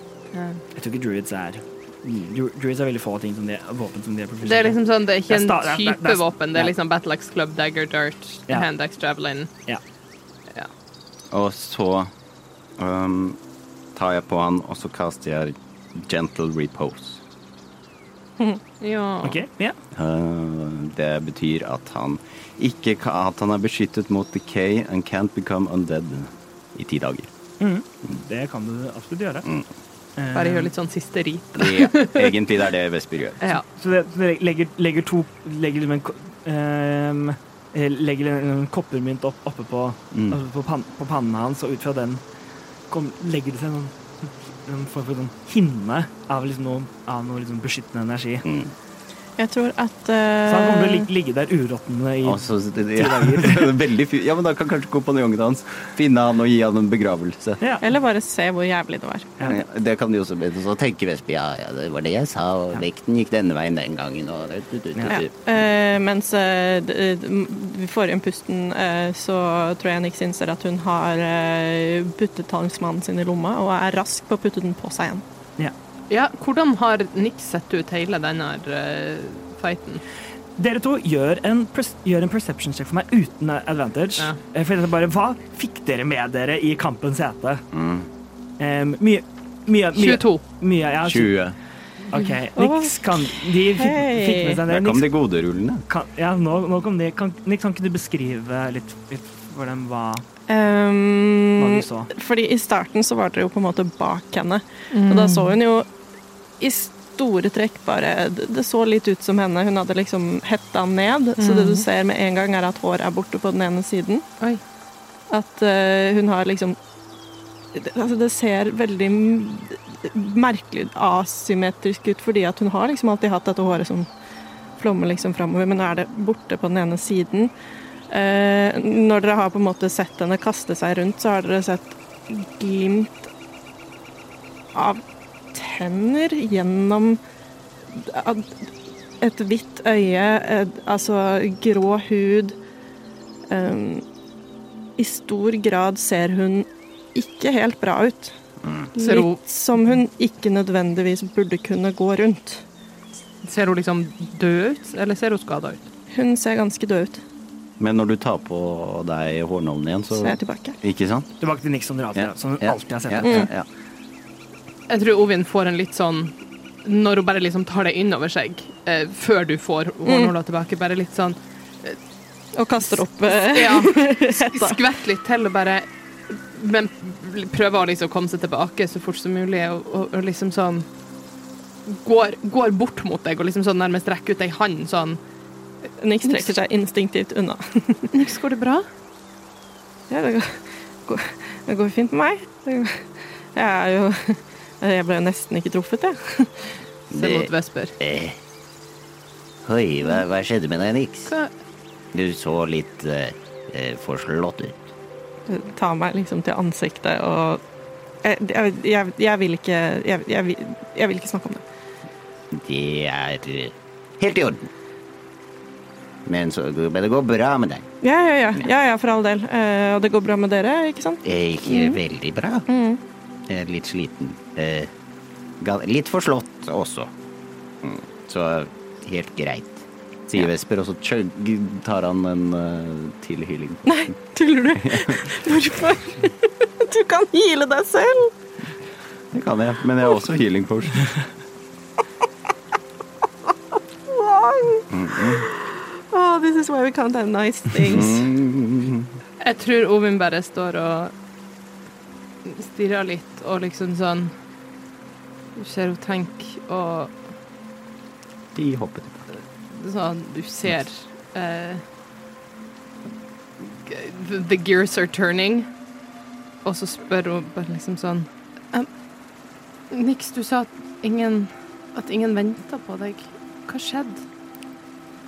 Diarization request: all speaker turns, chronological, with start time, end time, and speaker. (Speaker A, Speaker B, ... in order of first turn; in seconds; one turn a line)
Speaker A: 0.3-0.6
Speaker B: 0.8-6.7
Speaker A: 4.4-9.5
Speaker C: 11.3-12.1
Speaker C: 12.8-13.4
Speaker C: 13.9-17.2
Speaker A: 18.8-19.4
Speaker B: 19.2-19.8
Speaker C: 19.9-27.3
Speaker B: 27.6-29.5
Speaker B: 30.2-30.7
Speaker A: 30.4-32.4
Speaker C: 31.7-33.4
Speaker B: 33.5-42.2
Speaker C: 40.1-40.4
Speaker B: 42.9-48.5
Speaker D: 49.4-51.1
Speaker B: 50.5-53.7
Speaker C: 52.2-57.6
Speaker B: 57.6-57.9
Speaker D: 57.8-59.5
Speaker C: 59.5-60.1
Speaker E: 59.8-65.3
Speaker B: 64.9-65.2
Speaker D: 65.1-75.2
Speaker A: 76.1-80.0
Speaker B: 80.6-87.6
Speaker C: 87.7-88.0
Speaker B: 88.6-91.4
Speaker A: 89.9-90.4
Speaker C: 91.0-91.6
Speaker B: 92.1-95.1
Speaker D: 92.6-94.6
Speaker C: 94.7-95.8
Speaker B: 95.9-100.2
Speaker D: 100.5-105.9
Speaker B: 101.6-102.1
Speaker A: 104.9-105.6
Speaker D: 106.6-114.2
Speaker A: 111.4-111.8
Speaker D: 115.3-116.8
Speaker D: 117.7-124.1
Speaker D: 124.8-127.5
Speaker D: 128.1-133.3
Speaker D: 134.7-135.0
Speaker D: 135.5-137.2
Speaker D: 137.9-138.7
Speaker D: 139.2-142.6
Speaker D: 143.5-144.1
Speaker D: 145.0-148.3
Speaker D: 148.9-152.7
Speaker A: 149.0-149.4
Speaker A: 153.4-155.9
Speaker D: 156.1-157.2
Speaker C: 157.8-161.3
Speaker D: 160.1-160.8
Speaker B: 161.4-163.5
Speaker C: 162.2-163.7
Speaker D: 163.2-163.5
Speaker A: 164.9-172.0
Speaker D: 172.6-174.8
Speaker A: 173.3-180.9
Speaker A: 181.9-185.2
Speaker D: 186.0-188.1
Speaker A: 186.2-186.5
Speaker A: 188.1-188.9
Speaker D: 190.1-196.8
Speaker A: 197.1-198.0
Speaker E: 197.1-198.4
Speaker E: 199.6-201.3
Speaker E: 202.1-204.8
Speaker D: 205.5-207.6
Speaker D: 208.2-211.6
Speaker E: 212.5-214.7
Speaker E: 216.3-217.9
Speaker D: 218.0-222.0
Speaker E: 221.2-222.7
Speaker D: 222.7-223.0
Speaker E: 223.5-224.9
Speaker E: 225.6-227.1
Speaker E: 227.8-230.5
Speaker C: 230.3-233.8
Speaker D: 233.8-238.3
Speaker C: 239.3-241.1
Speaker D: 244.1-248.3
Speaker C: 244.9-245.4
Speaker C: 247.9-249.1
Speaker A: 249.4-251.1
Speaker A: 252.4-254.3
Speaker A: 255.6-257.1
Speaker C: 258.6-258.9
Speaker E: 258.6-259.1
Speaker A: 259.7-261.8
Speaker A: 263.6-265.7
Speaker A: 266.6-268.9
Speaker A: 269.9-274.2